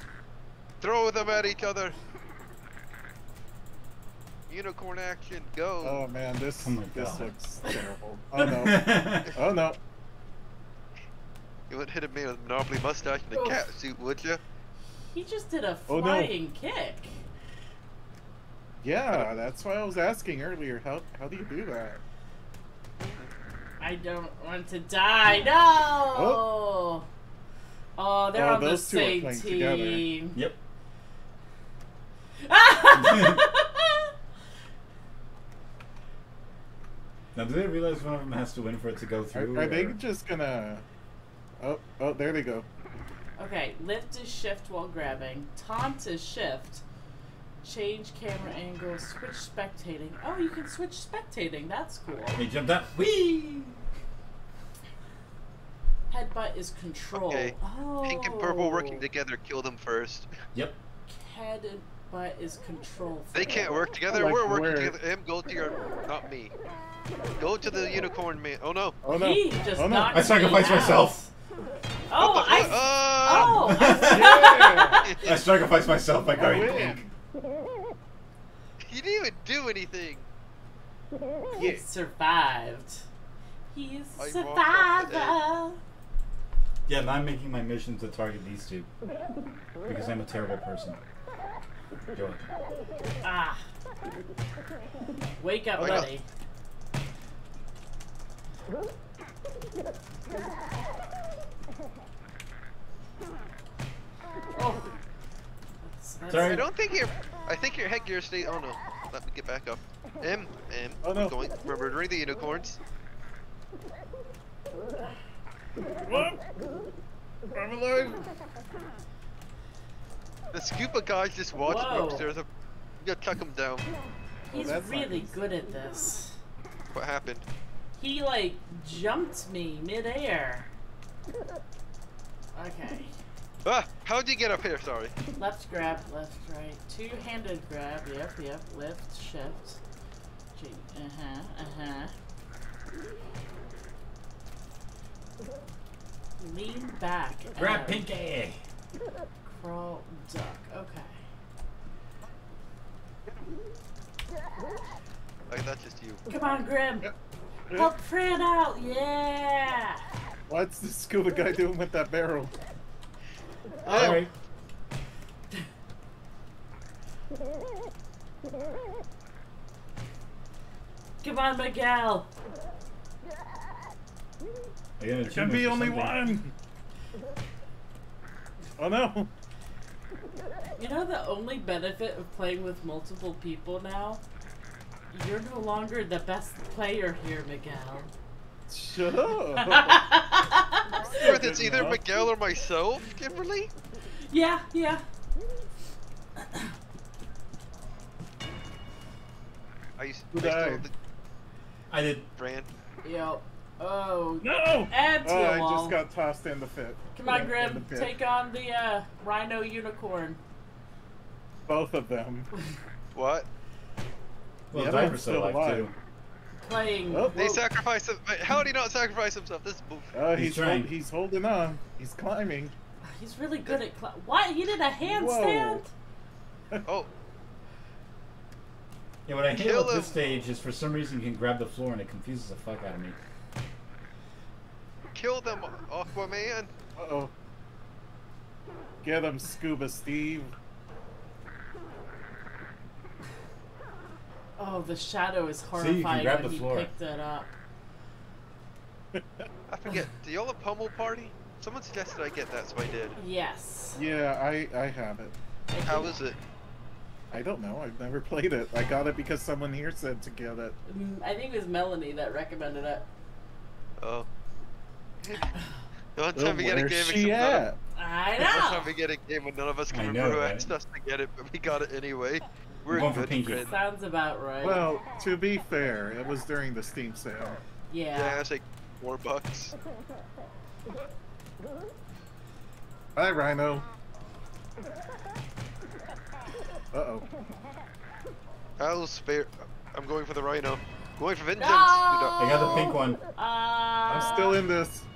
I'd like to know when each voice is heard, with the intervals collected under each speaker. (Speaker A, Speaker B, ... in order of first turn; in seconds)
Speaker A: 0.8-1.9, 4.5-6.0, 11.7-14.4, 23.0-23.3, 57.1-60.3, 63.3-66.5, 67.4-69.0, 72.2-73.7, 75.0-75.4, 78.9-80.3, 84.2-85.4, 95.8-96.1, 106.4-112.8, 120.5-122.5, 123.0-123.8, 126.9-127.4, 133.6-135.1, 155.5-156.2, 163.8-164.2, 191.2-193.7, 200.0-200.9, 202.4-202.7, 213.1-213.5, 217.3-220.1, 229.6-230.1, 235.1-236.7, 249.7-253.2, 255.8-256.4, 264.0-264.2, 265.2-265.5, 266.1-267.7, 268.4-273.7, 278.1-279.7, 288.8-292.7
Speaker B: 5.8-9.8, 15.9-16.3, 18.8-22.0, 26.1-26.4, 28.3-30.1, 39.3-40.8, 41.6-42.6, 64.1-65.0, 69.0-70.4, 73.3-75.2, 76.3-77.1, 81.5-81.8, 111.0-111.4, 116.0-116.4, 117.5-118.3, 124.5-125.3, 160.5-162.5, 175.2-176.5, 178.8-179.3, 188.7-190.1, 191.0-192.1, 200.3-200.8, 204.4-208.2, 211.7-212.5, 214.7-215.9, 217.1-217.4, 220.1-222.7, 225.0-225.8, 236.9-237.3, 239.0-240.5, 249.1-249.5, 254.0-255.3, 257.3-260.8, 266.3-267.8, 274.6-277.6, 283.1-283.9, 286.9-287.3, 294.1-295.1
Speaker C: 6.6-7.3, 8.4-9.3, 32.9-33.4, 37.3-40.0, 52.3-53.8, 70.1-71.2, 73.6-74.6, 75.2-77.0, 86.9-88.9, 89.8-91.0, 92.1-92.5, 106.3-106.7, 147.5-148.6, 163.9-164.3, 175.0-176.3, 201.9-202.3, 214.7-215.9, 220.3-220.9, 229.2-233.2, 245.7-246.9, 269.9-270.7, 272.9-273.7, 292.4-293.2
Speaker D: 13.3-13.6, 15.1-17.2, 23.8-27.1, 28.0-30.4, 32.4-34.1, 43.4-46.8, 47.6-52.4, 56.1-59.0, 61.1-63.7, 69.1-71.3, 72.1-75.1, 81.6-83.0, 83.7-85.8, 93.2-93.6, 95.4-96.2, 104.5-105.0, 105.8-106.6, 121.6-122.3, 124.5-126.4, 128.0-130.7, 132.5-133.1, 135.3-139.8, 140.5-142.1, 146.4-148.0, 149.4-151.2, 156.3-157.1, 157.7-160.0, 171.2-172.3, 180.8-184.2, 185.1-188.1, 189.6-191.2, 194.3-195.0, 203.0-206.0, 207.1-210.4, 216.6-217.6, 223.0-225.9, 244.6-247.5, 253.2-254.0, 255.7-256.1, 260.9-263.1, 267.9-268.9, 273.6-274.9, 277.9-278.4, 291.6-294.6